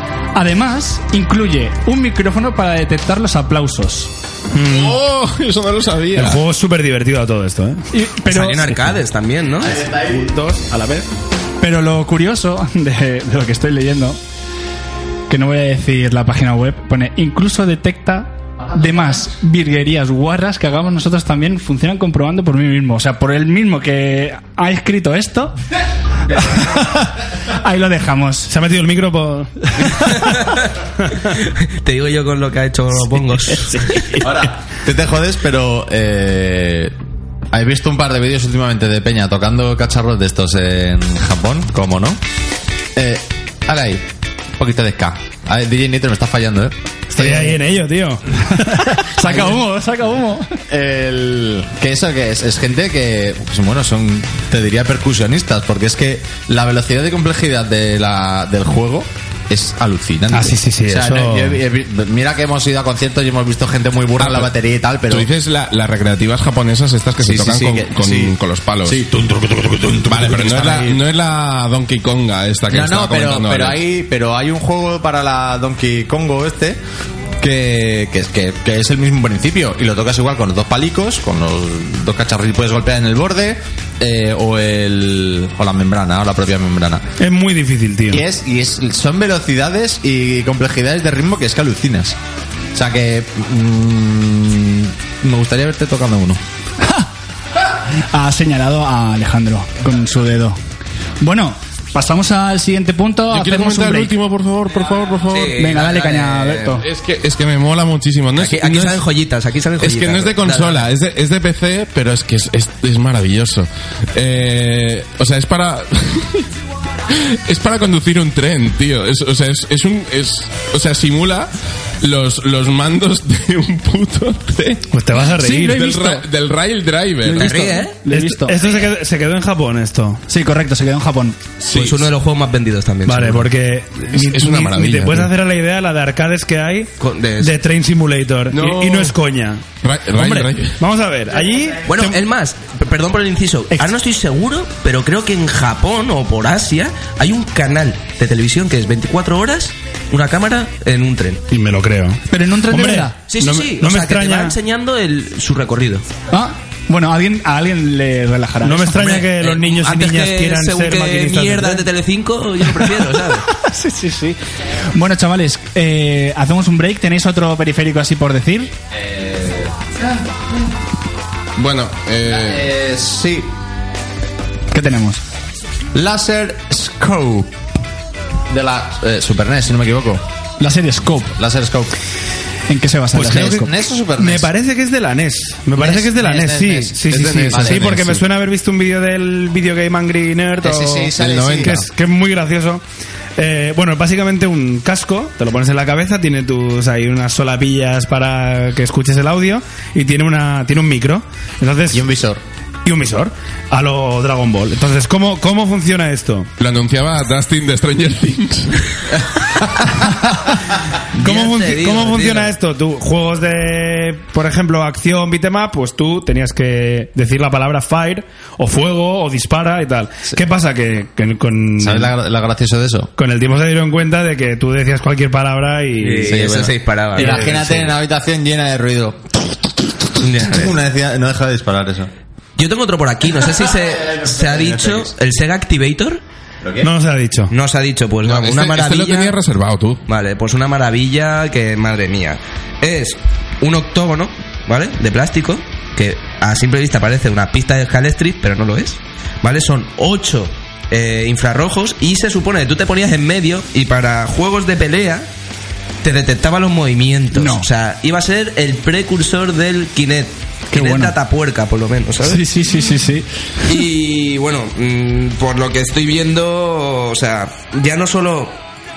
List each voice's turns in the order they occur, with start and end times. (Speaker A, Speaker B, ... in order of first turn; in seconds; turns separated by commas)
Speaker A: 0.3-4.1, Speaker B: 4.5-5.0, Speaker C: 4.6-6.4, Speaker B: 6.1-7.8, Speaker A: 7.9-8.8, Speaker D: 8.3-9.8, Speaker E: 9.6-10.3, Speaker B: 9.7-11.1, Speaker A: 11.6-14.2, Speaker A: 15.3-25.5, Speaker A: 26.3-28.5, Speaker B: 28.5-30.1, Speaker D: 30.2-30.7, Speaker D: 31.3-34.0, Speaker B: 34.0-34.2, Speaker E: 34.2-36.9, Speaker E: 37.5-42.2, Speaker E: 43.0-44.0, Speaker E: 44.6-47.5, Speaker B: 47.1-48.8, Speaker A: 48.5-50.6, Speaker E: 49.2-49.6, Speaker E: 50.7-65.3, Speaker B: 60.3-61.6, Speaker C: 64.2-64.5, Speaker C: 65.1-69.0, Speaker E: 67.2-71.0, Speaker C: 70.1-73.8, Speaker E: 72.7-76.8, Speaker E: 77.4-87.0, Speaker B: 87.2-88.2, Speaker E: 88.1-92.2, Speaker E: 92.7-96.4, Speaker A: 96.8-97.1, Speaker A: 97.9-100.6, Speaker A: 101.2-104.1, Speaker C: 103.3-105.6, Speaker D: 105.3-106.8, Speaker A: 105.6-106.8, Speaker C: 106.8-109.0, Speaker D: 108.4-110.9, Speaker C: 109.8-116.5, Speaker C: 117.1-124.8, Speaker B: 124.9-125.9, Speaker A: 125.4-126.2, Speaker C: 125.6-127.8, Speaker A: 127.2-128.6, Speaker D: 127.4-127.9, Speaker B: 128.1-130.2, Speaker A: 130.3-131.4, Speaker C: 131.6-132.1, Speaker D: 131.7-133.5, Speaker B: 133.1-142.2, Speaker C: 134.1-135.3, Speaker D: 137.0-137.6, Speaker C: 138.5-139.1, Speaker C: 139.8-140.8, Speaker D: 141.9-151.4, Speaker B: 151.5-154.5, Speaker A: 152.3-153.1, Speaker D: 153.3-156.1, Speaker A: 156.3-159.0, Speaker B: 158.6-161.8, Speaker D: 158.9-163.5, Speaker A: 163.5-164.4, Speaker A: 164.9-168.7, Speaker E: 168.9-169.7, Speaker C: 171.6-172.7, Speaker E: 172.3-173.5, Speaker A: 174.7-175.2, Speaker E: 175.9-177.6, Speaker E: 178.5-180.2, Speaker A: 180.6-181.3, Speaker E: 181.4-181.9, Speaker A: 182.7-183.7, Speaker E: 183.1-184.5, Speaker B: 184.2-192.8, Speaker E: 185.7-188.1, Speaker C: 187.1-188.2, Speaker E: 190.6-191.9, Speaker C: 191.2-191.8, Speaker B: 193.4-202.1, Speaker E: 201.9-202.4, Speaker B: 202.8-206.5, Speaker C: 206.6-209.2, Speaker D: 211.2-212.5, Speaker B: 211.2-222.1, Speaker E: 221.8-223.1, Speaker B: 223.2-226.5, Speaker D: 226.0-227.7, Speaker E: 226.2-229.2, Speaker B: 227.2-227.8, Speaker D: 230.2-230.7, Speaker E: 230.4-232.1, Speaker D: 232.6-236.2, Speaker E: 234.1-235.1, Speaker E: 236.6-236.9, Speaker B: 236.8-237.5, Speaker D: 237.5-239.4, Speaker C: 238.2-240.0, Speaker D: 240.1-255.3, Speaker D: 256.0-262.5, Speaker A: 257.3-257.7, Speaker A: 260.7-261.1, Speaker A: 262.2-263.7, Speaker D: 263.6-268.6